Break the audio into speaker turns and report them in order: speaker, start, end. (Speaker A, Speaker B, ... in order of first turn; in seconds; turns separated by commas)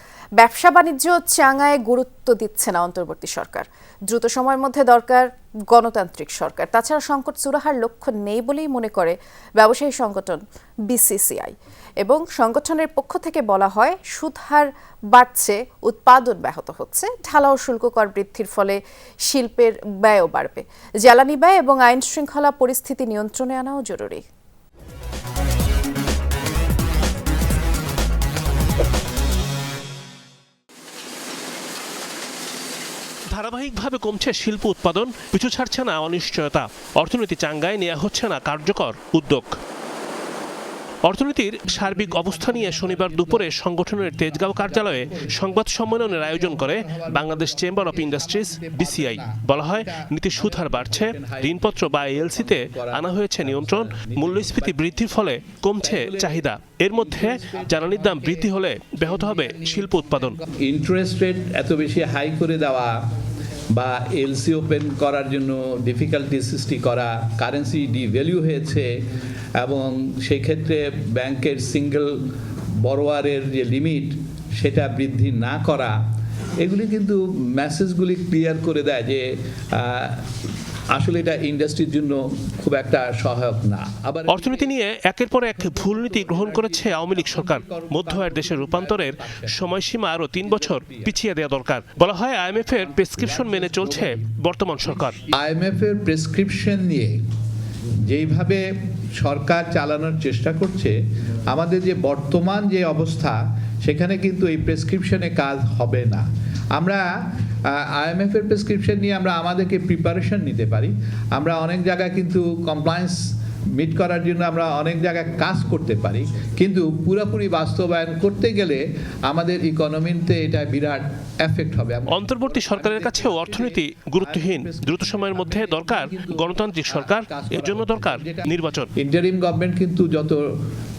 Speaker A: 0.4-24.2, Speaker B: 33.3-39.5, Speaker B: 41.0-60.4, Speaker C: 41.7-54.9, Speaker C: 55.8-58.5, Speaker C: 59.0-63.0, Speaker C: 63.7-68.9, Speaker C: 69.6-76.0, Speaker C: 76.6-80.3, Speaker C: 80.9-84.7, Speaker B: 84.3-95.2, Speaker C: 85.5-89.7, Speaker C: 90.3-91.2, Speaker C: 92.8-97.2, Speaker C: 97.9-101.0, Speaker C: 101.5-130.6, Speaker B: 122.1-128.9